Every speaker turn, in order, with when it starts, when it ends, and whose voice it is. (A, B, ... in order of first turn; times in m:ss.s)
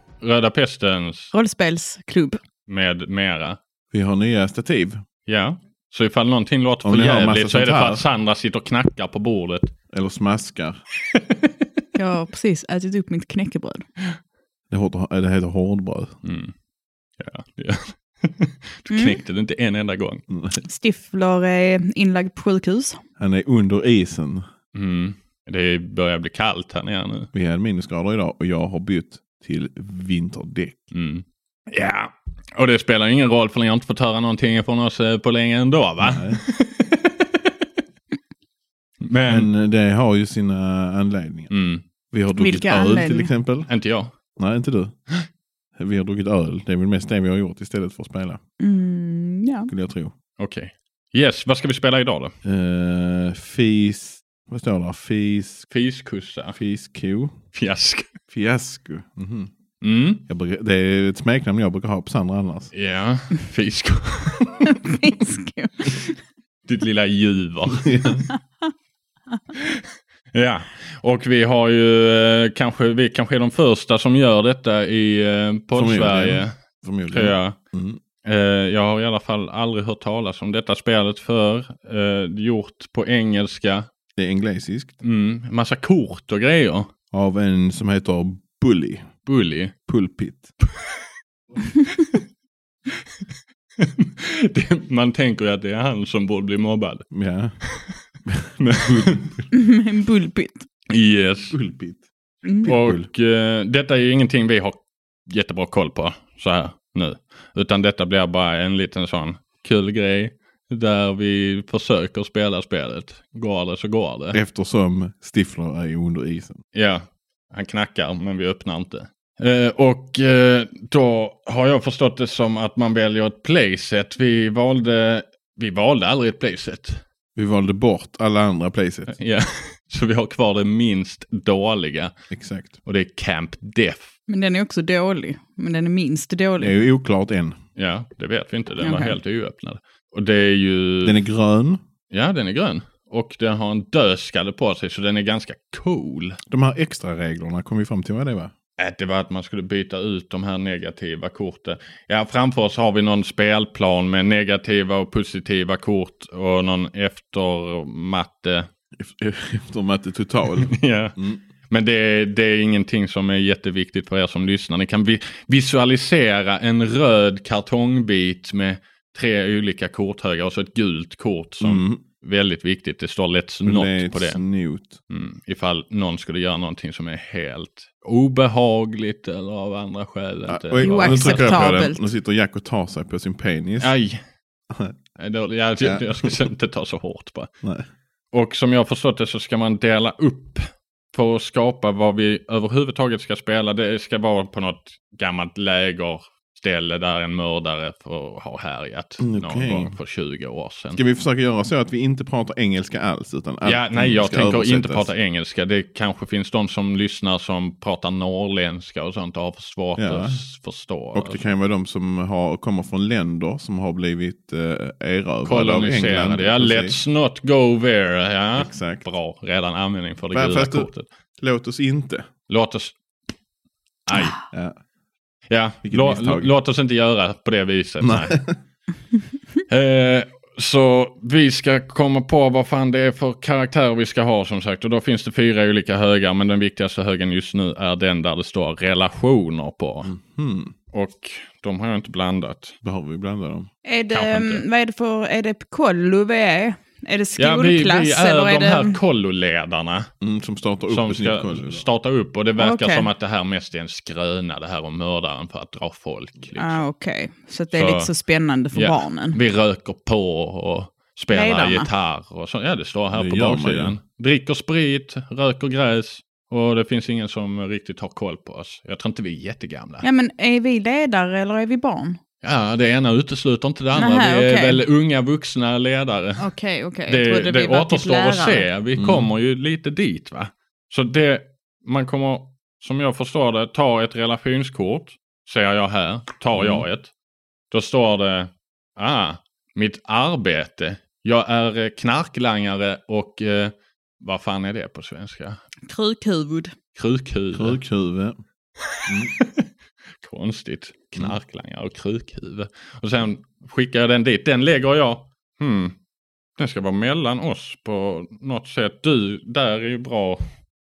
0:00.2-0:01.3 A
0:01.3-0:02.4 B
0:02.7-0:03.6 A
0:03.9-0:05.0 C
0:05.3-0:09.7 A
0:06.8-0:08.0 C
0:09.9-0:10.8 C
0:12.0-0:13.9 B
0:14.7-0:16.2 C
0:16.2-0:16.5 A
0:17.2-0:20.2 A
0:18.9-0:19.2 B
0:20.3-0:20.6 C
0:20.6-0:23.0 B
0:23.2-0:24.4 C
0:24.8-0:27.3 A
0:27.3-0:30.9 C
0:30.9-0:37.1 A
0:36.0-0:36.4 C
0:39.0-0:39.5 A
0:39.3-0:41.5 C
0:41.5-0:41.8 A
0:42.1-0:43.7 C
0:42.4-0:43.3 B
0:43.7-0:44.1 A
0:44.4-0:44.9 C
0:45.8-0:48.4 C
0:48.6-0:49.7 B
0:49.7-0:50.1 C
0:50.4-0:52.3 A
0:52.4-0:55.7 C
0:55.7-0:56.6 A
0:56.5-0:57.4 C
0:57.6-0:58.1 A
0:58.3-0:59.5 C
0:59.8-1:00.2 A
1:00.3-1:02.7 C
1:02.8-1:04.5 A
1:04.6-1:06.2 B
1:06.7-1:07.9 A
1:07.7-1:08.3 C
1:08.3-1:08.7 B
1:10.3-1:16.5 A
1:15.8-1:18.0 C
1:17.1-1:17.6 A
1:18.2-1:23.9 A
1:24.2-1:25.0 C
1:25.0-1:26.9 A
1:27.1-1:29.1 C
1:29.3-1:29.7 A
1:29.9-1:30.5 C
1:33.8-1:37.0 A
1:37.1-1:37.6 C
1:38.3-1:39.3 C
1:38.6-1:39.3 A
1:39.5-1:40.7 B
1:40.9-1:41.6 A
1:41.5-1:42.0 C
1:42.4-1:42.7 B
1:42.6-1:43.1 C
1:42.7-1:54.4 A
1:54.3-1:56.6 C
1:56.8-2:07.0 A
2:07.4-2:09.1 C
2:09.2-2:12.1 A
2:12.3-2:12.8 C
2:12.9-2:14.1 A
2:14.3-2:16.8 B
2:16.6-2:17.6 C
2:17.8-2:21.2 A
2:18.8-2:19.2 B
2:21.0-2:21.8 C
2:22.1-2:26.4 A
2:26.5-2:28.5 C
2:28.8-2:38.7 A
2:39.0-2:41.4 C
2:40.6-2:41.1 A
2:41.7-2:54.4 A
2:51.6-2:52.0 C
2:53.6-2:55.0 C
2:55.1-3:01.5 A
3:00.5-3:04.0 C
3:00.8-3:02.0 B
3:03.8-3:04.2 A
3:04.7-3:05.0 C
3:05.2-3:07.5 A
3:05.8-3:06.4 C
3:08.3-3:10.6 A
3:11.1-3:21.0 A
3:19.2-3:20.0 C
3:21.0-3:25.1 C
3:23.6-3:31.4 A
3:30.0-3:30.4 C
3:31.1-3:37.0 C
3:35.5-3:41.1 A
3:38.6-3:39.0 C
3:40.3-3:42.3 C
3:42.5-3:43.0 A
3:44.1-3:44.4 A
3:44.5-3:44.8 C
3:45.5-3:48.3 A
3:45.8-3:46.5 C
3:48.0-3:48.6 C
3:49.7-4:00.1 A
4:00.0-4:00.7 C
4:00.9-4:02.8 A
4:02.8-4:03.7 C
4:03.8-4:09.0 B
4:04.1-4:04.6 A
4:07.4-4:10.1 A
4:10.2-4:11.9 C
4:10.9-4:16.8 A
4:12.6-4:13.1 B
4:16.6-4:19.4 B
4:17.7-4:18.1 A
4:18.7-4:30.0 A
4:21.3-4:21.9 B
4:23.1-4:24.0 C
4:30.0-4:32.2 B
4:32.4-4:36.4 A
4:33.9-4:34.8 B
4:36.4-4:38.7 B
4:37.1-4:47.1 A
4:39.0-4:39.3 C
4:46.6-4:46.9 C
4:47.7-4:55.6 A
4:55.9-4:56.8 B
4:57.0-4:57.8 A
4:57.5-4:58.4 C
4:59.0-4:59.4 C
5:00.2-5:06.0 A
5:06.6-5:10.4 A